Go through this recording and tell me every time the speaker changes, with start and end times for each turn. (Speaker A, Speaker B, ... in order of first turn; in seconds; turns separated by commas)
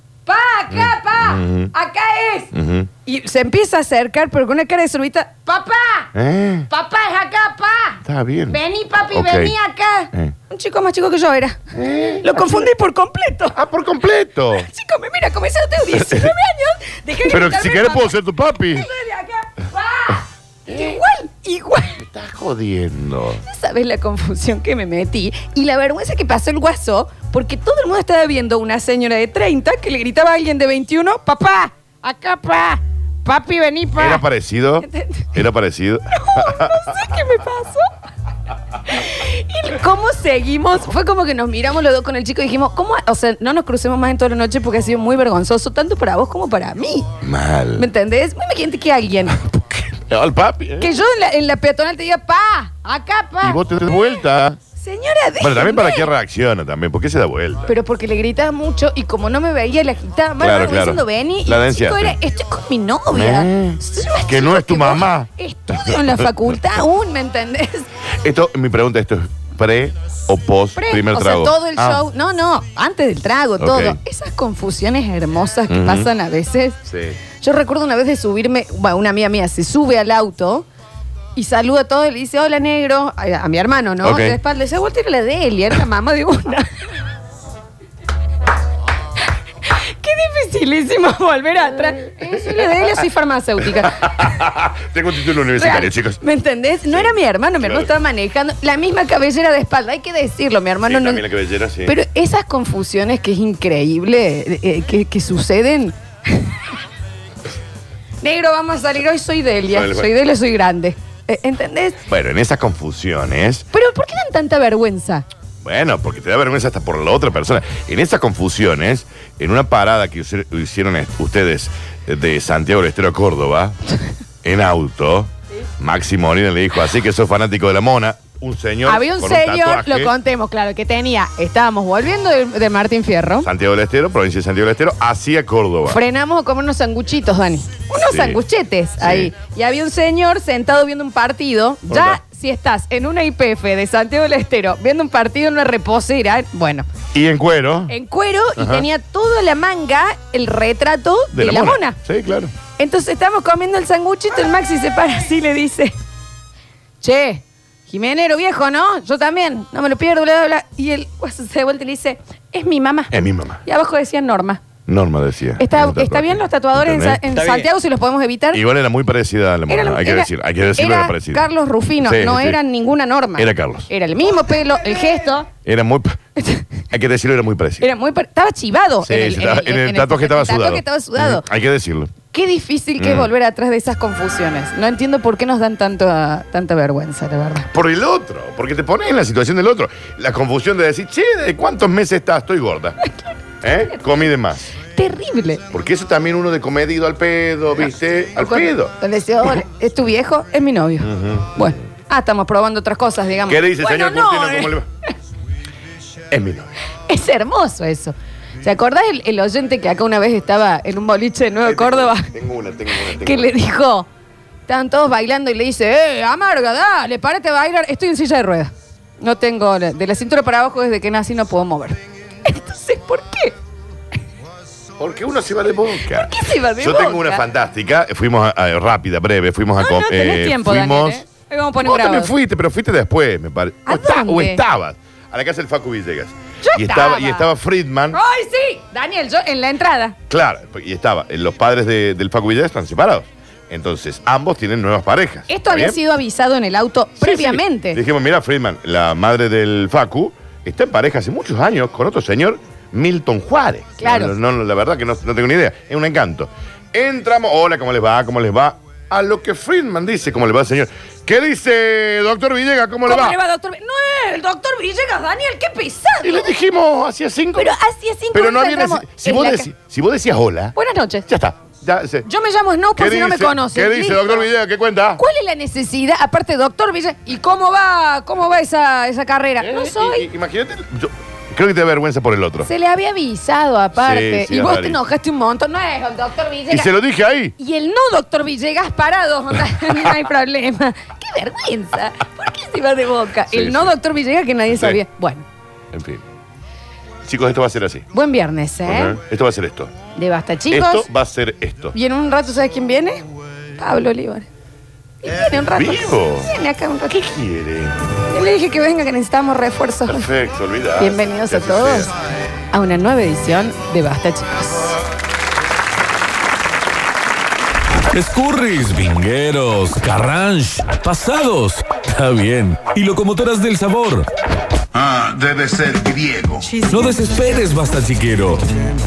Speaker A: 0.3-2.5, Speaker B: 0.7-1.7, Speaker B: 2.5-2.9, Speaker A: 3.1-6.1, Speaker B: 6.1-6.7, Speaker A: 6.7-11.6, Speaker B: 8.0-8.6, Speaker B: 9.1-9.6, Speaker B: 11.7-12.7, Speaker A: 12.2-13.6, Speaker B: 13.5-14.7, Speaker A: 14.5-22.0, Speaker B: 15.9-16.3, Speaker B: 17.3-18.9, Speaker B: 20.7-21.0, Speaker B: 22.0-23.4, Speaker A: 23.4-34.2, Speaker B: 34.0-36.9, Speaker A: 34.8-35.4, Speaker A: 36.1-37.9, Speaker A: 38.9-47.1, Speaker B: 47.2-47.9, Speaker A: 47.8-49.8, Speaker B: 49.9-50.9, Speaker A: 50.8-54.2, Speaker B: 53.4-54.6, Speaker A: 54.8-56.1, Speaker B: 55.4-57.7, Speaker A: 57.7-67.9, Speaker B: 60.4-62.2, Speaker B: 63.1-66.5, Speaker B: 68.2-72.0, Speaker A: 70.8-76.8, Speaker B: 73.6-74.0, Speaker B: 75.7-76.1, Speaker B: 76.9-77.2, Speaker A: 77.4-80.7, Speaker A: 81.4-86.8, Speaker B: 84.0-84.4, Speaker A: 89.7-94.3, Speaker B: 92.2-92.9, Speaker B: 93.7-96.2, Speaker A: 95.5-101.2, Speaker B: 96.9-97.9, Speaker B: 100.8-102.0, Speaker A: 101.8-106.6, Speaker A: 108.2-112.0, Speaker B: 109.7-110.1, Speaker B: 112.1-113.7, Speaker A: 113.7-115.3, Speaker B: 115.6-123.8, Speaker B: 124.4-130.1, Speaker A: 128.9-133.5, Speaker B: 133.4-136.0, Speaker A: 135.9-146.9, Speaker B: 138.0-138.4, Speaker B: 139.0-139.3, Speaker B: 141.9-142.2, Speaker B: 147.1-147.9, Speaker A: 147.9-152.0, Speaker B: 148.6-148.9, Speaker B: 151.3-152.5, Speaker A: 152.8-156.0, Speaker A: 157.0-164.6, Speaker B: 163.1-163.6, Speaker B: 164.9-167.2, Speaker A: 165.6-168.6, Speaker C: 167.3-167.7, Speaker B: 168.5-171.4, Speaker A: 169.7-175.5, Speaker B: 172.0-172.6, Speaker B: 173.4-173.9, Speaker B: 175.7-176.2, Speaker A: 176.4-176.7, Speaker B: 176.9-177.9, Speaker A: 177.8-181.5, Speaker B: 179.0-182.1, Speaker A: 182.3-187.7, Speaker B: 183.0-183.3, Speaker B: 187.7-193.0, Speaker A: 193.0-193.3, Speaker B: 193.6-194.7, Speaker A: 194.8-195.6, Speaker B: 195.7-199.6, Speaker A: 198.4-204.8, Speaker B: 201.0-201.7, Speaker B: 203.5-204.9, Speaker B: 206.3-206.7, Speaker A: 207.1-212.3, Speaker B: 211.6-213.5, Speaker A: 212.9-214.1, Speaker A: 214.7-223.6, Speaker B: 225.0-231.2, Speaker A: 226.0-227.4, Speaker A: 229.8-232.3, Speaker B: 231.8-238.2, Speaker A: 233.9-234.6, Speaker A: 236.6-237.5, Speaker A: 238.1-240.2, Speaker B: 240.3-246.0, Speaker A: 245.5-248.0, Speaker B: 247.2-263.4, Speaker A: 254.0-254.3, Speaker A: 263.1-266.5, Speaker B: 266.2-267.7, Speaker A: 267.6-269.7, Speaker B: 268.3-270.8, Speaker A: 270.8-271.3, Speaker B: 271.3-272.3, Speaker A: 272.2-274.4, Speaker B: 273.0-275.2, Speaker A: 275.2-280.3, Speaker B: 279.6-282.7, Speaker A: 282.6-286.9, Speaker B: 284.0-285.0, Speaker B: 286.7-287.6, Speaker A: 287.6-295.4, Speaker B: 293.5-293.9, Speaker B: 294.7-295.0, Speaker B: 295.9-296.2, Speaker B: 297.2-298.1, Speaker A: 298.1-299.2, Speaker B: 298.9-299.9, Speaker A: 300.2-301.1, Speaker B: 300.7-301.9, Speaker A: 301.9-303.2, Speaker A: 303.8-304.5, Speaker A: 305.2-307.2, Speaker B: 305.5-306.5, Speaker B: 307.1-308.1, Speaker A: 308.3-310.3, Speaker B: 310.1-312.1, Speaker A: 311.0-312.1, Speaker A: 312.7-314.9, Speaker C: 318.1-324.3, Speaker B: 325.0-326.7, Speaker C: 326.8-328.7